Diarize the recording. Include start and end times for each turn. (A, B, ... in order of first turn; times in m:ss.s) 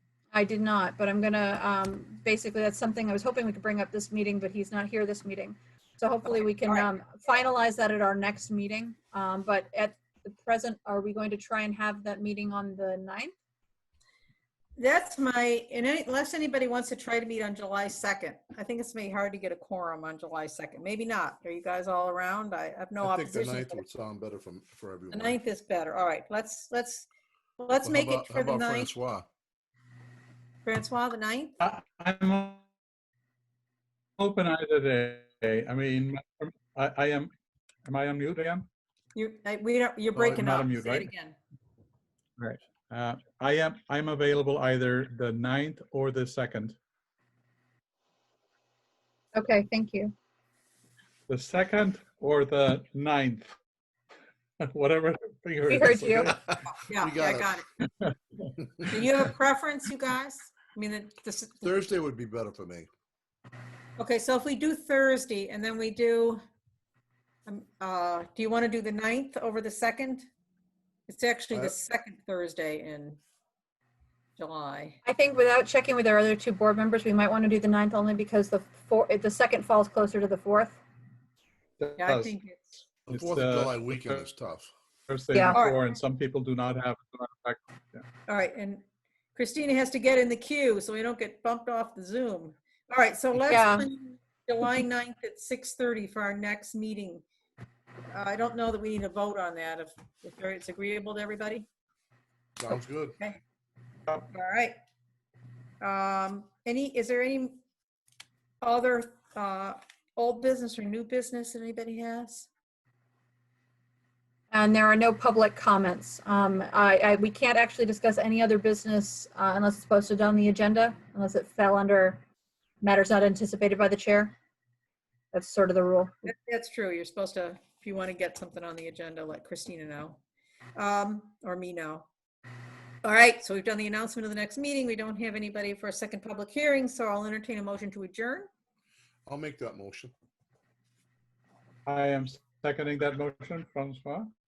0:00.3-0:13.3 A
0:06.3-0:06.9 B
0:14.8-0:23.8 B
0:23.0-0:25.4 C
0:25.1-0:27.1 B
0:27.6-0:28.9 B
0:27.8-0:29.3 C
0:30.6-0:31.6 B
0:31.6-0:32.6 D
0:34.2-0:37.3 D
0:37.8-0:38.6 D
0:39.1-0:41.4 B
0:40.1-0:41.1 D
0:42.4-0:46.8 D
0:49.3-0:50.1 A
0:51.3-0:53.5 D
0:54.6-0:56.3 D
0:55.7-0:56.3 A
0:56.6-0:57.7 B
0:57.0-0:57.6 C
0:58.6-0:58.9 C
0:58.9-1:01.9 B
1:01.6-1:02.9 C
1:04.0-1:06.4 B
1:07.4-1:10.3 B
1:11.1-1:13.2 B
1:14.4-1:15.0 B
1:15.0-1:20.8 A
1:21.8-1:22.3 D
1:22.0-1:22.8 B
1:23.1-1:24.7 C
1:23.1-1:24.2 D
1:25.1-1:28.0 D
1:25.3-1:25.6 A
1:25.5-1:25.8 B
1:28.3-1:28.8 B
1:29.3-1:37.2 B
1:33.5-1:33.9 A
1:38.1-1:41.7 B
1:42.6-1:43.2 C
1:42.7-1:43.4 B
1:44.2-1:44.8 B
1:45.8-1:47.6 B
1:48.6-1:52.5 B
1:54.5-2:02.2 A
2:02.8-2:04.3 A
2:05.3-2:06.1 A
2:06.2-2:10.2 B
2:10.8-2:12.1 B
2:13.0-2:18.5 B
2:19.2-2:20.1 C
2:21.8-2:24.3 D